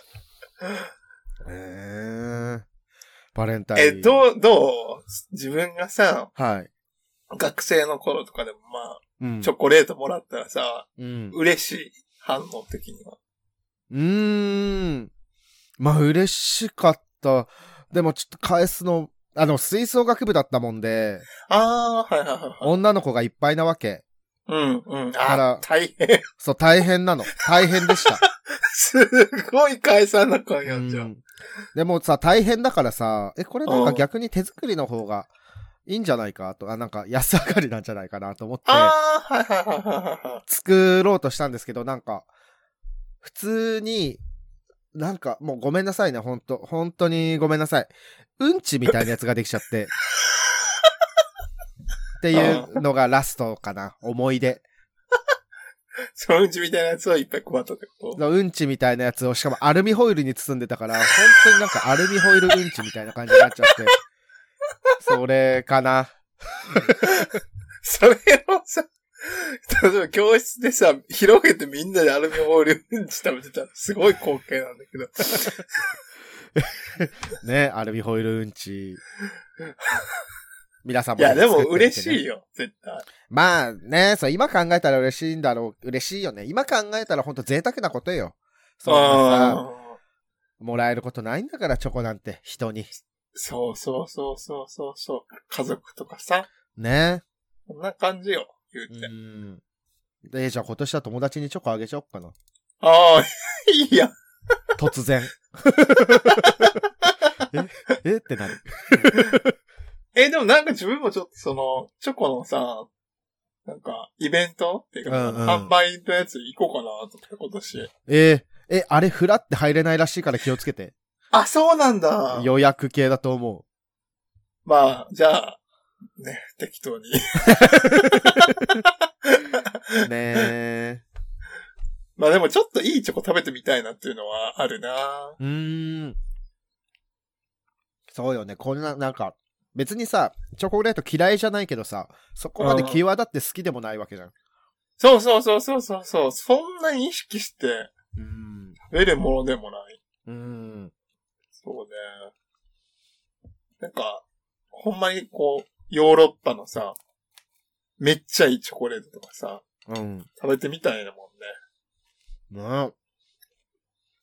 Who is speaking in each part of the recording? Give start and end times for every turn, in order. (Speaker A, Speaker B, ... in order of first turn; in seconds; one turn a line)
Speaker A: 1.4-2.7
Speaker A: 3.3-4.2
Speaker B: 3.8-6.3
Speaker A: 6.4-6.7
Speaker B: 7.3-13.2
Speaker A: 9.2-9.5
Speaker A: 11.0-11.4
Speaker A: 13.9-15.1
Speaker A: 15.8-21.2
Speaker B: 21.5-22.7
Speaker A: 22.6-24.0
Speaker B: 24.5-26.2
Speaker A: 25.2-25.6
Speaker A: 26.4-28.2
Speaker B: 27.6-31.1
Speaker A: 30.7-31.2
Speaker A: 31.8-35.3
Speaker B: 33.7-34.0
Speaker A: 35.9-38.9
Speaker B: 38.7-40.4
Speaker A: 40.5-42.3
Speaker A: 43.2-44.2
Speaker A: 44.9-49.9
Speaker A: 52.2-54.6
Speaker B: 52.3-52.8
Speaker B: 56.2-58.2
Speaker A: 58.2-64.0
Speaker B: 61.1-62.7
Speaker B: 63.4-63.9
Speaker A: 65.0-66.1
Speaker A: 66.7-67.1
Speaker B: 67.0-75.7
Speaker A: 76.6-79.0
Speaker A: 80.8-82.2
Speaker B: 81.2-83.0
Speaker A: 83.3-89.6
Speaker B: 88.9-90.0
Speaker A: 90.6-92.9
Speaker B: 93.3-96.5
Speaker A: 96.8-97.2
Speaker B: 97.7-99.1
Speaker A: 98.9-99.6
Speaker A: 100.2-102.3
Speaker B: 102.8-104.1
Speaker A: 104.8-106.7
Speaker B: 105.9-107.3
Speaker A: 107.5-109.5
Speaker B: 109.1-109.4
Speaker B: 110.2-112.9
Speaker B: 113.7-117.9
Speaker A: 115.1-115.7
Speaker A: 118.1-120.9
Speaker B: 121.3-122.5
Speaker A: 122.3-123.7
Speaker B: 124.7-125.6
Speaker B: 126.2-130.5
Speaker A: 127.6-128.4
Speaker A: 130.0-131.0
Speaker B: 132.2-135.4
Speaker A: 135.4-136.2
Speaker A: 138.1-144.3
Speaker B: 142.6-143.0
Speaker B: 145.0-147.9
Speaker A: 148.2-148.8
Speaker B: 148.9-150.0
Speaker A: 150.3-150.9
Speaker B: 151.6-152.3
Speaker B: 153.8-157.0
Speaker B: 158.0-159.6
Speaker A: 159.9-160.3
Speaker B: 160.4-161.5
Speaker A: 162.5-162.9